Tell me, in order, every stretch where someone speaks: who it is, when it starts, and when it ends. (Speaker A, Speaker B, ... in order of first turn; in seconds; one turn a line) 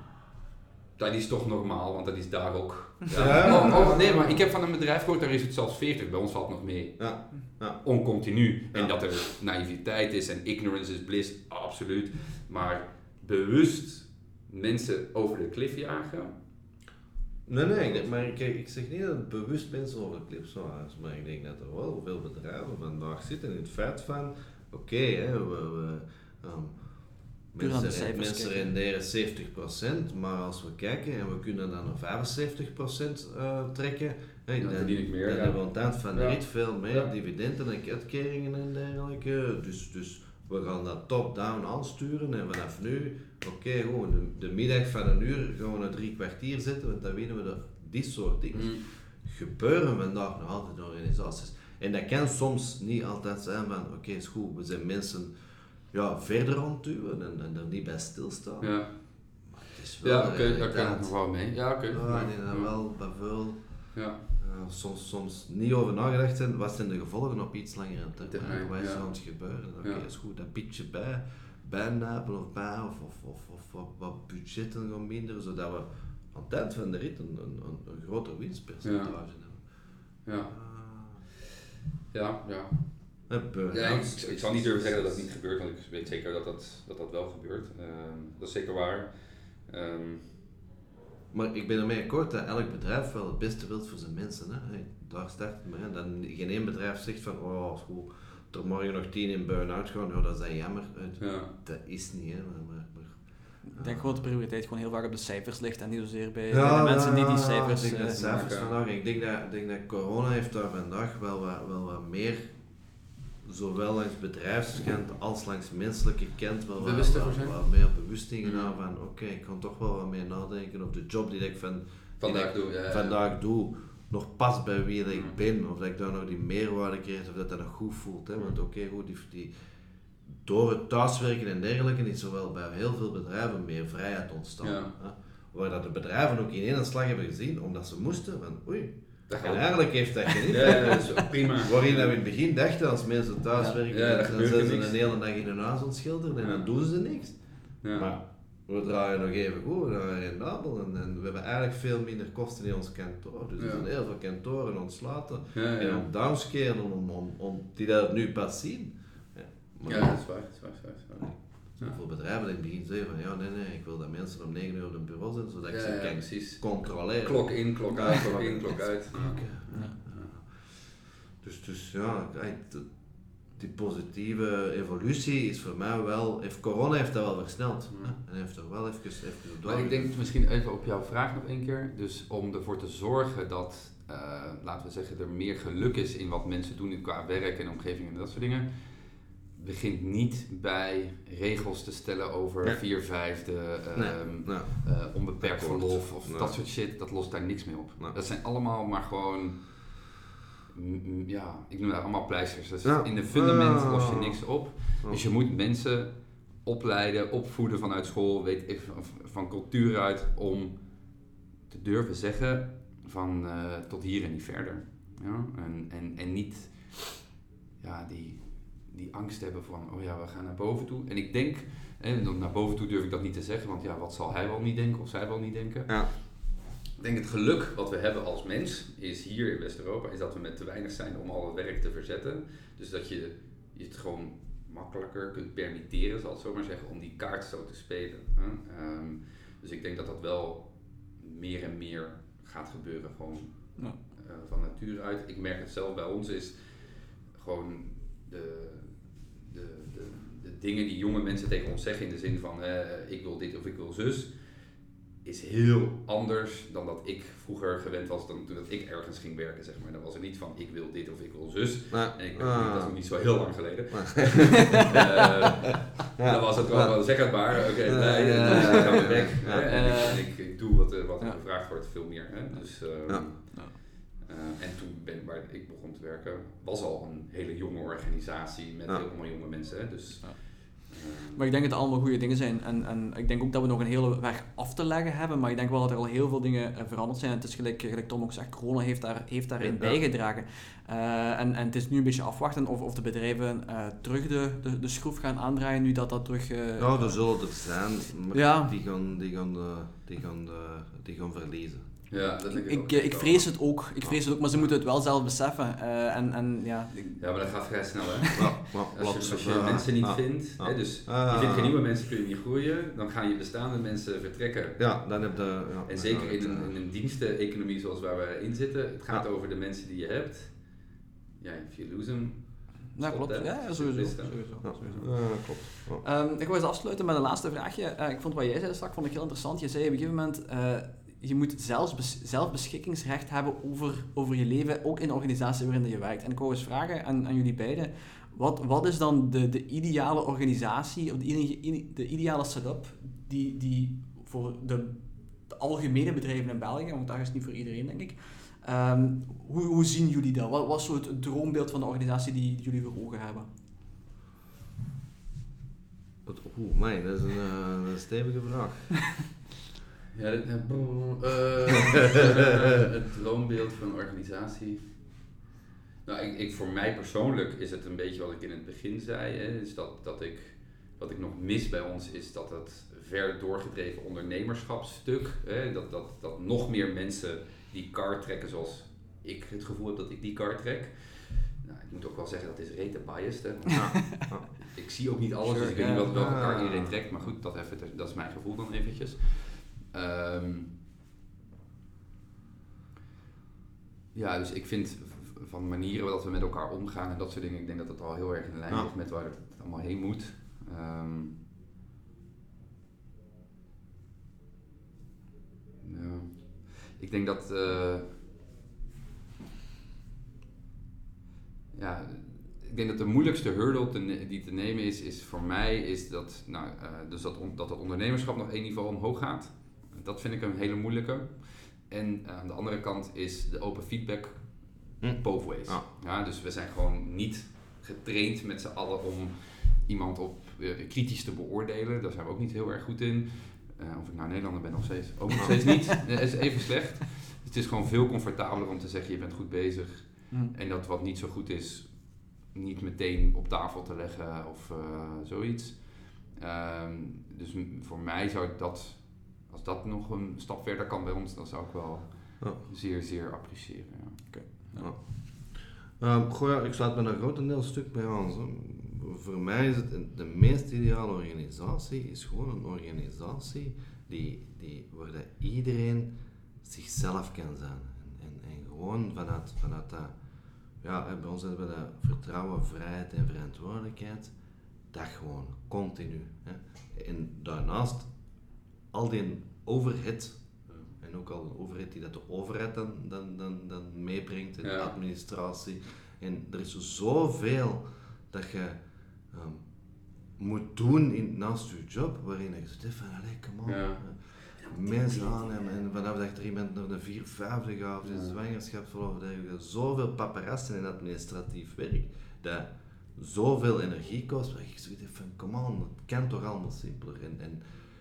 Speaker A: 0.9-16.3
Speaker B: 3.1-4.4
Speaker B: 7.0-7.8
Speaker B: 8.7-9.2
Speaker B: 17.4-26.8
Speaker A: 17.7-18.3
Speaker B: 27.5-55.3
Speaker C: 27.6-28.7
Speaker A: 34.6-37.1
Speaker A: 48.5-48.8
Speaker B: 55.9-58.7
Speaker A: 58.6-58.9
Speaker B: 59.5-61.1
Speaker A: 60.0-62.7
Speaker B: 61.9-63.6
Speaker A: 63.9-64.2
Speaker B: 64.4-79.6
Speaker A: 68.2-69.1
Speaker A: 78.8-79.1
Speaker A: 80.2-80.5
Speaker B: 80.5-81.2
Speaker A: 82.1-83.2
Speaker B: 83.3-85.3
Speaker A: 83.7-90.3
Speaker B: 91.3-103.2
Speaker A: 101.2-101.5
Speaker B: 103.7-104.2
Speaker C: 103.7-108.2
Speaker B: 106.5-112.5
Speaker A: 108.1-108.8
Speaker B: 113.4-129.5
Speaker A: 116.8-117.6
Speaker A: 118.4-118.7
Speaker A: 122.2-123.2
Speaker B: 130.4-147.4
Speaker A: 134.6-134.9
Speaker A: 139.3-139.7
Speaker C: 140.3-141.1
Speaker A: 140.5-142.1
Speaker A: 143.9-145.1
Speaker A: 147.8-148.1
Speaker B: 147.9-160.2
Speaker A: 153.6-153.8
Speaker A: 155.5-156.0
Speaker A: 159.8-162.0
Speaker B: 161.8-172.9
Speaker A: 165.7-170.3
Speaker B: 173.5-180.1
Speaker A: 179.6-188.9
Speaker A: 189.5-199.9
Speaker B: 193.9-196.5
Speaker A: 200.7-210.9
Speaker B: 202.8-204.4
Speaker A: 211.7-217.3
Speaker A: 217.8-254.4
Speaker A: 255.2-281.4
Speaker B: 261.9-262.9
Speaker B: 263.9-265.3
Speaker B: 266.2-270.1
Speaker C: 268.4-270.5
Speaker C: 280.2-297.4
Speaker B: 289.6-290.0
Speaker B: 296.8-301.8
Speaker C: 298.3-298.7
Speaker A: 302.1-303.5
Speaker C: 302.5-307.4
Speaker A: 307.0-314.8
Speaker C: 308.2-308.5
Speaker B: 308.3-311.8
Speaker B: 314.8-316.7
Speaker A: 315.9-320.6
Speaker A: 321.4-325.1
Speaker C: 322.9-353.5
Speaker B: 324.6-326.0
Speaker B: 356.2-359.2
Speaker A: 360.1-365.3
Speaker A: 366.0-384.1
Speaker B: 383.7-384.5
Speaker A: 384.6-390.7
Speaker C: 385.5-386.2
Speaker B: 386.1-387.1
Speaker A: 394.1-401.4
Speaker A: 405.8-408.2
Speaker A: 411.7-454.7
Speaker B: 425.0-425.8
Speaker C: 454.3-454.9
Speaker B: 454.8-470.1
Speaker B: 470.8-474.3
Speaker B: 474.9-478.1
Speaker B: 478.9-488.8
Speaker A: 484.6-484.9
Speaker B: 489.3-489.6
Speaker B: 490.4-507.6
Speaker A: 493.6-494.0
Speaker A: 498.0-498.3